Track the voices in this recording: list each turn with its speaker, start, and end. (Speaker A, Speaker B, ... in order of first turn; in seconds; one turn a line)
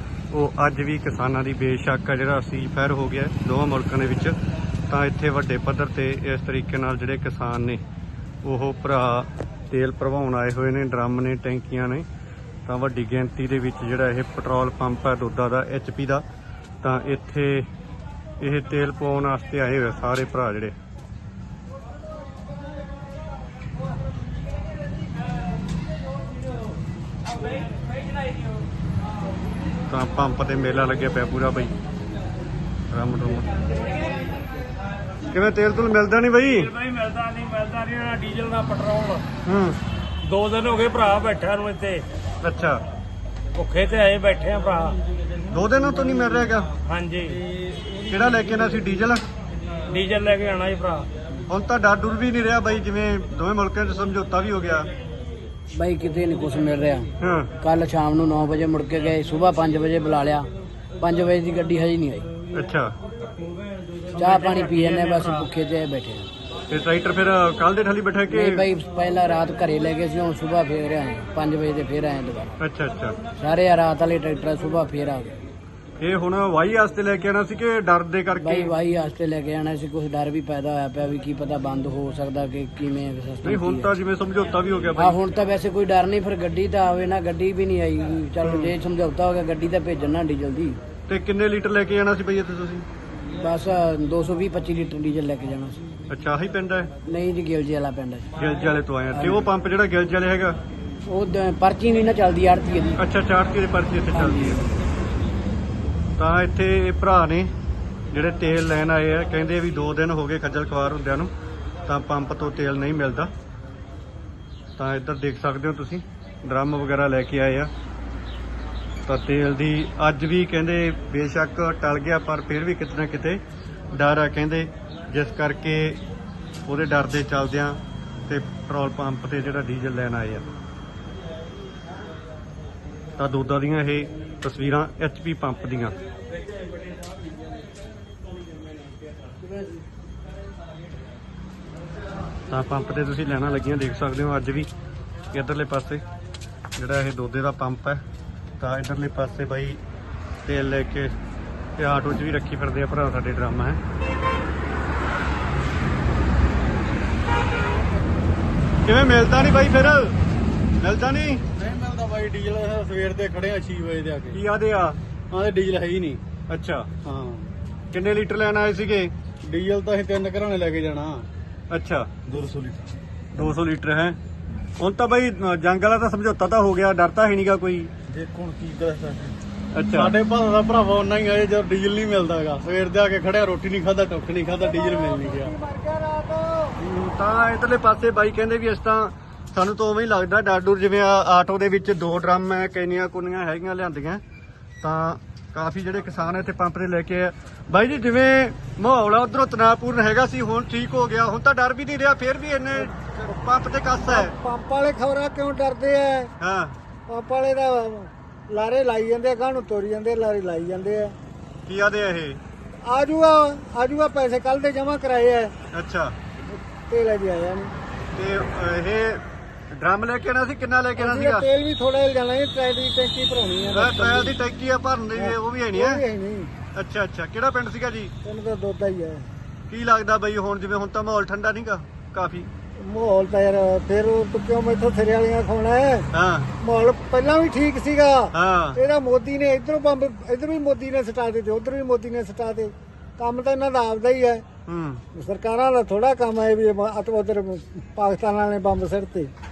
Speaker A: 0.3-4.3
Speaker A: 4.9-7.8
Speaker A: 8.4-12.1
Speaker A: 12.7-16.2
Speaker A: 16.8-17.7
Speaker A: 18.4-20.8
Speaker A: 29.9-31.8
Speaker A: 32.9-33.7
Speaker A: 35.3-36.7
Speaker B: 36.6-39.3
Speaker A: 39.5-39.8
Speaker B: 40.2-42.0
Speaker A: 42.4-42.8
Speaker B: 43.5-45.0
Speaker A: 45.5-46.7
Speaker B: 46.8-47.4
Speaker A: 48.1-49.2
Speaker B: 49.9-51.1
Speaker A: 51.5-54.9
Speaker C: 55.7-60.5
Speaker A: 57.2-57.5
Speaker C: 61.0-62.3
Speaker A: 62.5-62.9
Speaker B: 64.1-65.4
Speaker C: 64.1-66.3
Speaker A: 66.7-68.7
Speaker C: 68.3-72.5
Speaker A: 72.6-73.2
Speaker C: 73.4-75.4
Speaker A: 76.0-78.7
Speaker C: 78.4-83.9
Speaker A: 83.4-85.2
Speaker C: 85.0-90.8
Speaker A: 88.4-88.8
Speaker A: 91.1-92.9
Speaker C: 93.4-95.8
Speaker A: 96.1-96.9
Speaker C: 97.1-98.3
Speaker A: 98.4-100.6
Speaker C: 99.1-99.5
Speaker C: 101.1-103.0
Speaker A: 103.0-104.6
Speaker C: 104.1-104.7
Speaker A: 106.2-107.5
Speaker A: 108.1-111.3
Speaker A: 111.9-113.3
Speaker A: 114.8-117.7
Speaker A: 119.1-123.4
Speaker A: 123.9-126.0
Speaker A: 126.7-130.4
Speaker A: 133.2-136.0
Speaker A: 142.5-144.7
Speaker A: 145.3-146.0
Speaker A: 146.8-148.0
Speaker A: 148.6-149.8
Speaker A: 150.5-151.1
Speaker A: 151.8-153.8
Speaker A: 158.8-160.2
Speaker A: 160.8-161.4
Speaker D: 161.6-164.4
Speaker A: 164.3-165.0
Speaker D: 165.3-166.2
Speaker A: 166.5-166.9
Speaker D: 167.0-167.5
Speaker A: 167.9-169.1
Speaker D: 169.4-171.3
Speaker A: 171.7-172.1
Speaker D: 172.3-172.9
Speaker A: 173.3-174.2
Speaker A: 174.8-177.9
Speaker D: 178.1-179.4
Speaker A: 179.7-180.2
Speaker D: 179.9-185.5
Speaker E: 184.6-186.8
Speaker A: 186.8-194.2
Speaker A: 194.8-204.3
Speaker E: 204.1-206.3
Speaker A: 206.4-206.8
Speaker E: 207.1-211.2
Speaker A: 211.7-212.4
Speaker E: 212.8-215.5
Speaker A: 215.7-216.2
Speaker E: 216.5-217.7
Speaker A: 218.1-221.5
Speaker E: 221.0-224.3
Speaker A: 223.7-226.0
Speaker E: 225.2-226.5
Speaker A: 226.7-228.1
Speaker E: 228.2-229.3
Speaker A: 229.7-232.5
Speaker E: 232.8-236.1
Speaker A: 236.1-236.5
Speaker E: 236.6-244.5
Speaker A: 238.3-238.8
Speaker A: 244.7-245.0
Speaker E: 245.1-249.3